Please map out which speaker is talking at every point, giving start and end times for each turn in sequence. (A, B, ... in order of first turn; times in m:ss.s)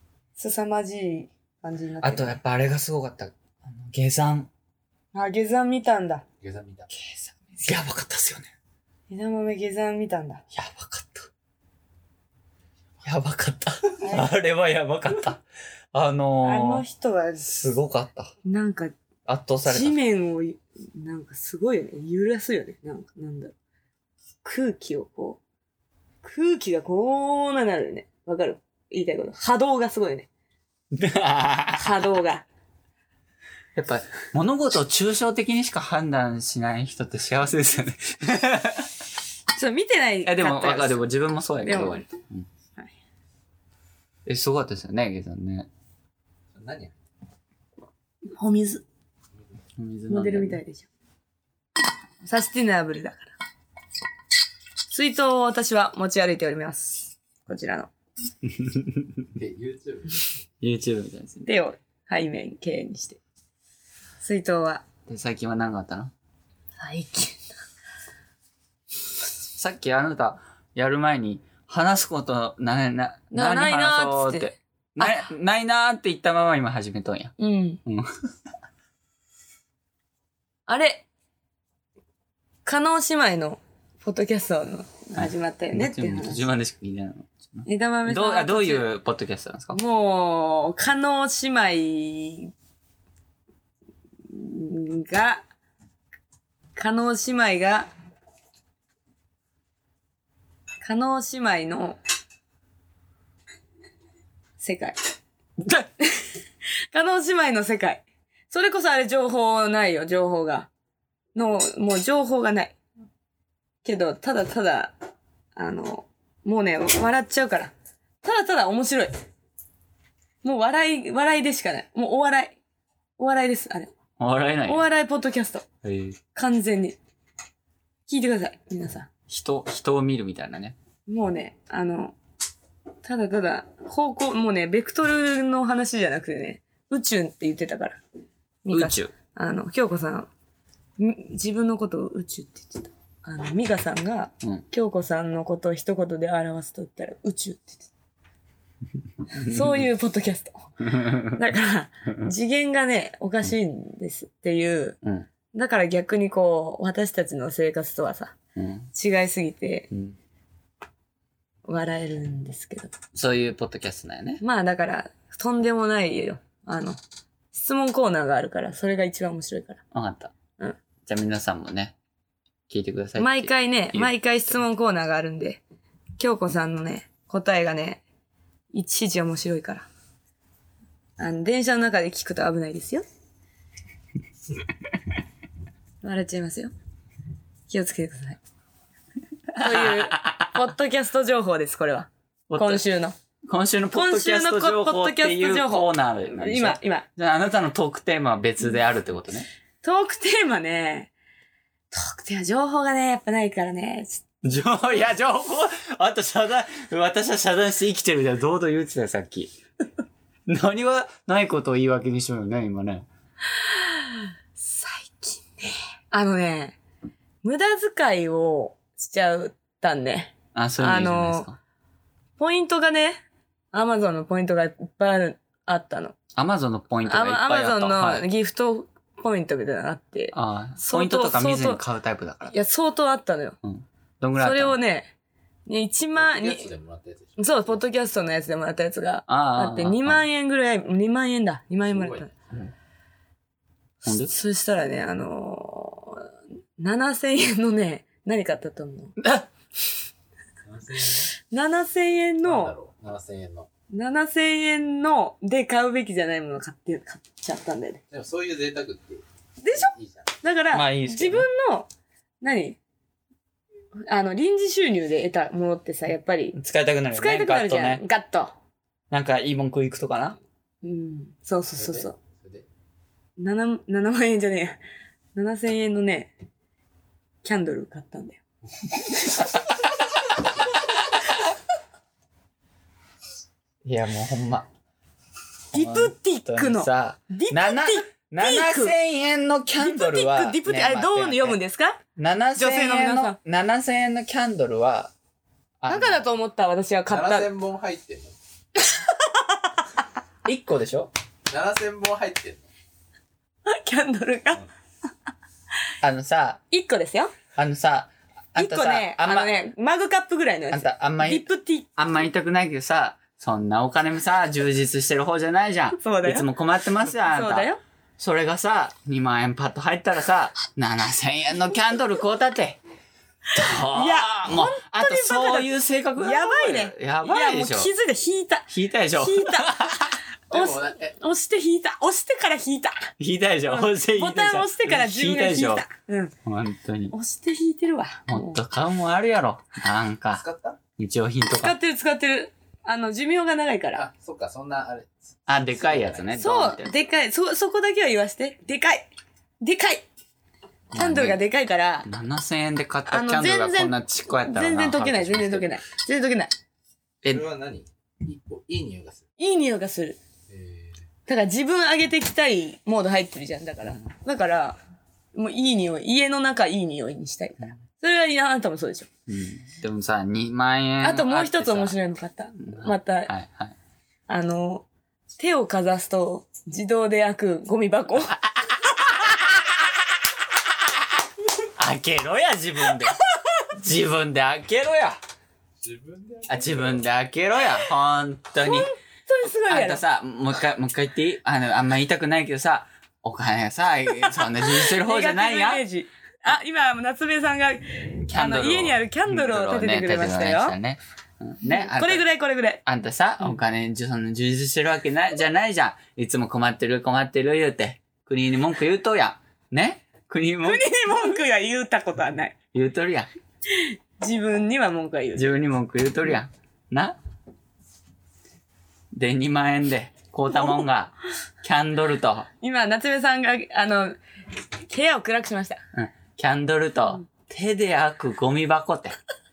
0:00.4-0:02.4 A
0:02.0-0:04.5 B
0:05.1-0:06.2 A
0:06.4-0:06.9 C
0:06.9-0:08.5 B
0:09.1-0:10.4 A
0:10.5-0:11.3 B
0:13.0-0:16.8 B
0:14.0-0:14.3 A
0:16.4-0:17.5 A
0:17.4-0:18.3 B
0:18.4-0:18.9 A
0:19.3-0:20.0 B
0:19.6-0:23.5 A
0:24.4-0:25.4 A
0:26.2-0:30.3 A
0:30.9-0:32.0 B
0:31.7-0:32.4 A
0:33.7-0:38.9 B
0:39.6-0:42.0 A
0:40.2-0:42.5 B
0:44.2-0:45.7 B
0:46.5-0:46.9 C
0:48.2-0:48.8 A
0:49.8-0:50.6 B
0:50.1-0:50.9 A
0:52.2-0:53.3 A
0:54.9-0:57.9 A
0:58.4-0:59.2 B
0:59.3-1:00.3 C
1:00.6-1:01.5 B
1:01.4-1:03.2 A
1:04.2-1:04.8 A
1:05.1-1:06.1 B
1:06.8-1:07.5 A
1:09.5-1:17.3 B
1:13.3-1:15.3 A
1:17.4-1:17.8 A
1:17.8-1:18.3 B
1:20.7-1:21.1 A
1:22.6-1:26.4 A
1:25.1-1:29.8 B
1:27.6-1:28.8 A
1:29.7-1:32.5 A
1:34.3-1:35.4 A
1:36.8-1:37.9 A
1:40.8-1:42.0 A
1:44.6-1:45.0 A
1:46.9-1:50.7 A
1:51.3-1:52.8 A
1:53.8-1:54.9 A
1:55.6-1:59.1 A
2:00.4-2:02.6 A
2:03.2-2:03.9 A
2:04.2-2:04.9 B
2:04.7-2:05.6 A
2:05.8-2:06.2 B
2:06.3-2:07.0 A
2:08.1-2:09.1 A
2:09.3-2:10.8 B
2:11.1-2:12.2 A
2:13.0-2:18.0 A
2:18.6-2:20.3 A
2:18.7-2:19.1 B
2:21.0-2:27.9 A
2:29.3-2:29.8 B
2:29.4-2:30.7 A
2:30.8-2:31.4 B
2:31.2-2:35.0 A
2:35.0-2:35.3 B
2:35.5-2:38.3 A
2:38.6-2:38.9 B
2:38.9-2:39.9 A
2:39.9-2:40.2 B
2:41.6-2:42.9 A
2:43.1-2:44.4 B
2:44.4-2:47.0 A
2:47.5-2:49.8 A
2:49.9-2:50.3 B
2:51.0-2:52.0 B
2:52.7-2:54.1 B
2:53.2-2:55.6 A
2:56.2-2:58.0 A
2:58.7-2:59.9 A
3:01.2-3:03.0 A
3:06.0-3:06.7 A
3:07.7-3:08.4 A
3:09.5-3:10.6 B
3:09.6-3:13.2 A
3:12.5-3:12.8 B
3:13.4-3:19.5 B
3:13.9-3:17.0 A
3:19.8-3:21.1 A
3:21.9-3:24.2 A
3:24.4-3:29.5 B
3:30.5-3:33.1 B
3:33.6-3:36.8 A
3:37.4-3:41.5 A
3:40.5-3:41.6 B
3:42.4-3:46.2 A
3:46.3-3:48.3 B
3:47.0-3:51.8 A
3:50.3-3:52.5 B
3:52.5-3:53.6 A
3:53.6-3:54.8 B
3:54.4-3:55.1 A
3:55.7-3:56.7 A
3:56.1-3:57.9 C
3:57.4-4:02.3 A
3:59.3-4:00.2 B
4:01.9-4:02.7 C
4:04.0-4:04.3 B
4:04.1-4:09.2 A
4:09.2-4:09.5 B
4:10.6-4:11.3 C
4:11.5-4:12.7 A
4:12.4-4:13.7 C
4:13.9-4:18.0 A
4:18.1-4:20.4 C
4:19.6-4:21.9 A
4:20.7-4:21.5 B
4:22.4-4:22.8 A
4:24.1-4:26.6 A
4:26.5-4:28.0 B
4:27.1-4:28.5 A
4:29.1-4:30.4 B
4:30.8-4:32.1 A
4:31.7-4:32.6 C
4:33.4-4:34.8 A
4:35.3-4:36.3 A
4:37.4-4:38.4 A
4:43.8-4:44.7 B
4:45.7-4:48.9 A
4:45.7-4:51.6 B
4:49.8-4:52.0 A
4:52.2-4:55.1 B
4:52.6-4:53.4 A
4:55.8-4:56.2 B
4:55.9-4:57.5 A
4:57.1-4:58.4 C
4:58.8-4:59.7 A
5:00.4-5:01.1 B
5:01.5-5:02.7 C
5:03.6-5:04.6 A
5:06.0-5:06.6 B
5:06.7-5:07.3 A
5:07.5-5:09.5 B
5:08.6-5:11.9 A
5:10.7-5:22.8 B
5:16.0-5:16.5 A
5:17.2-5:17.8 A
5:23.5-5:27.9 B
5:23.6-5:33.1 A
5:28.7-5:30.1 B
5:30.5-5:31.2 C
5:33.2-5:35.8 B
5:33.7-5:36.3 A
5:36.4-5:37.1 B
5:37.1-5:38.6 A
5:38.3-5:40.4 B
5:40.3-5:40.8 C
5:41.0-5:41.8 B
5:41.6-5:44.0 A
5:43.9-5:46.3 C
5:45.5-5:47.0 B
5:46.4-5:49.1 A
5:49.6-5:50.0 A
5:50.9-5:51.4 B
5:50.9-5:52.1 A
5:52.0-5:55.8 B
5:53.1-5:56.5 A
5:57.2-5:59.2 C
5:59.4-6:00.2 A
6:00.5-6:01.0 C
6:01.3-6:04.8 A
6:03.8-6:04.1 B
6:05.3-6:09.1 A
6:09.3-6:12.0 B
6:11.0-6:13.3 A
6:12.6-6:13.8 B
6:14.3-6:14.8 A
6:15.4-6:18.5 A
6:18.7-6:20.0 B
6:21.8-6:23.2 B
6:23.7-6:25.2 B
6:25.8-6:27.0 C
6:26.5-6:28.9 B
6:28.6-6:30.0 A
6:29.7-6:35.8 B
6:34.2-6:40.8 A
6:38.2-6:42.2 B
6:41.6-6:42.8 A
6:42.8-6:50.9 B
6:50.6-6:52.5 A
6:52.7-6:53.3 B
6:53.7-6:55.6 A
6:55.3-6:57.2 B
6:59.1-7:02.5 B
7:02.6-7:04.2 A
7:04.8-7:05.8 A
7:05.9-7:09.2 B